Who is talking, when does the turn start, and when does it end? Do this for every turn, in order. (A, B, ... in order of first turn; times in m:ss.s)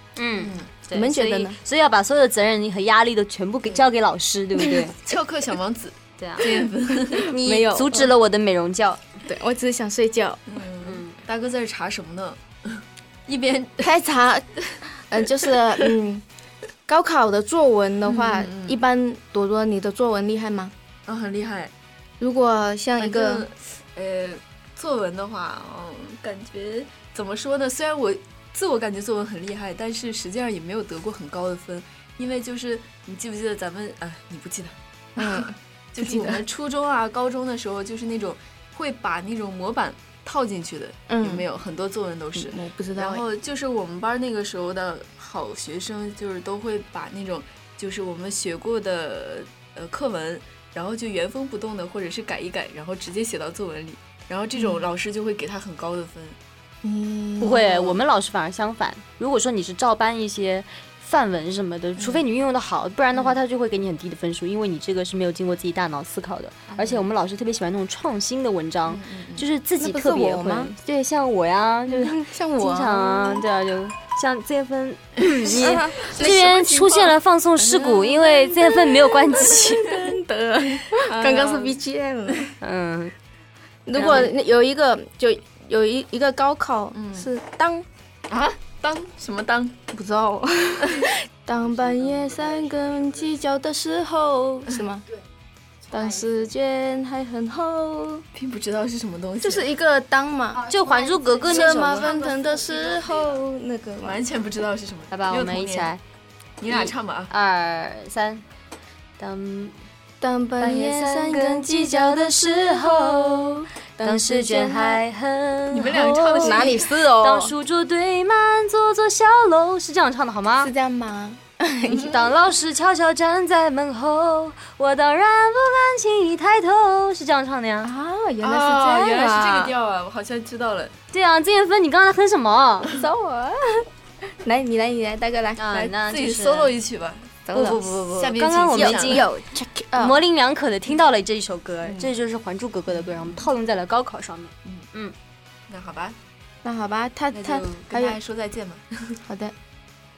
0:00.2-0:05.0 A
0:00.4-0:00.7 B
0:00.9-0:01.6 C
0:05.0-0:07.3 B
0:06.2-0:06.5 A
0:07.3-0:09.0 A
0:07.4-0:08.1 C
0:09.3-0:10.4 C
0:10.5-0:13.9 B
0:10.8-0:11.2 A
0:13.8-0:16.2 C
0:16.9-0:20.7 C
0:18.1-0:18.8 B
0:21.1-0:21.7 B
0:22.2-0:23.4 C
0:23.0-0:56.4 B
0:35.2-0:36.4 C
0:41.1-0:41.4 C
0:42.4-0:43.2 C
0:54.6-0:54.8 C
0:56.8-0:57.7 C
0:57.4-1:20.0 A
0:57.7-0:58.0 B
1:02.0-1:02.2 B
1:03.1-1:03.4 B
1:06.7-1:07.1 B
1:08.9-1:09.4 B
1:09.8-1:10.8 C
1:11.9-1:13.4 C
1:15.5-1:16.3 C
1:16.1-1:18.1 B
1:17.9-1:22.5 C
1:21.0-1:21.8 B
1:22.6-1:23.1 A
1:23.9-1:27.8 C
1:23.9-1:24.3 A
1:24.0-1:24.3 B
1:26.9-1:27.3 B
1:28.3-1:29.8 B
1:29.9-1:35.0 C
1:31.7-1:33.1 B
1:35.9-1:38.2 C
1:38.3-1:39.7 B
1:39.4-1:40.6 C
1:40.7-1:42.0 A
1:41.4-1:42.2 B
1:41.4-1:44.2 C
1:44.0-1:45.9 B
1:45.1-1:46.0 A
1:46.6-1:47.3 B
1:46.7-1:48.4 A
1:49.2-1:49.8 A
1:50.2-1:55.0 C
1:50.6-1:53.5 A
1:54.0-2:00.7 A
1:55.7-1:56.8 B
1:56.4-1:57.5 C
2:00.6-2:02.2 C
2:01.9-2:07.9 A
2:07.8-2:09.8 C
2:08.4-2:10.9 B
2:11.1-2:12.9 A
2:12.9-2:13.8 C
2:14.4-2:15.6 C
2:15.6-2:16.7 A
2:15.7-2:19.2 B
2:17.5-2:17.8 C
2:17.6-2:19.3 A
2:18.7-2:20.2 C
2:20.0-2:25.2 A
2:21.8-2:22.1 B
2:22.9-2:23.5 B
2:25.7-2:26.2 B
2:26.6-2:28.2 C
2:27.3-2:29.2 B
2:29.3-2:29.5 C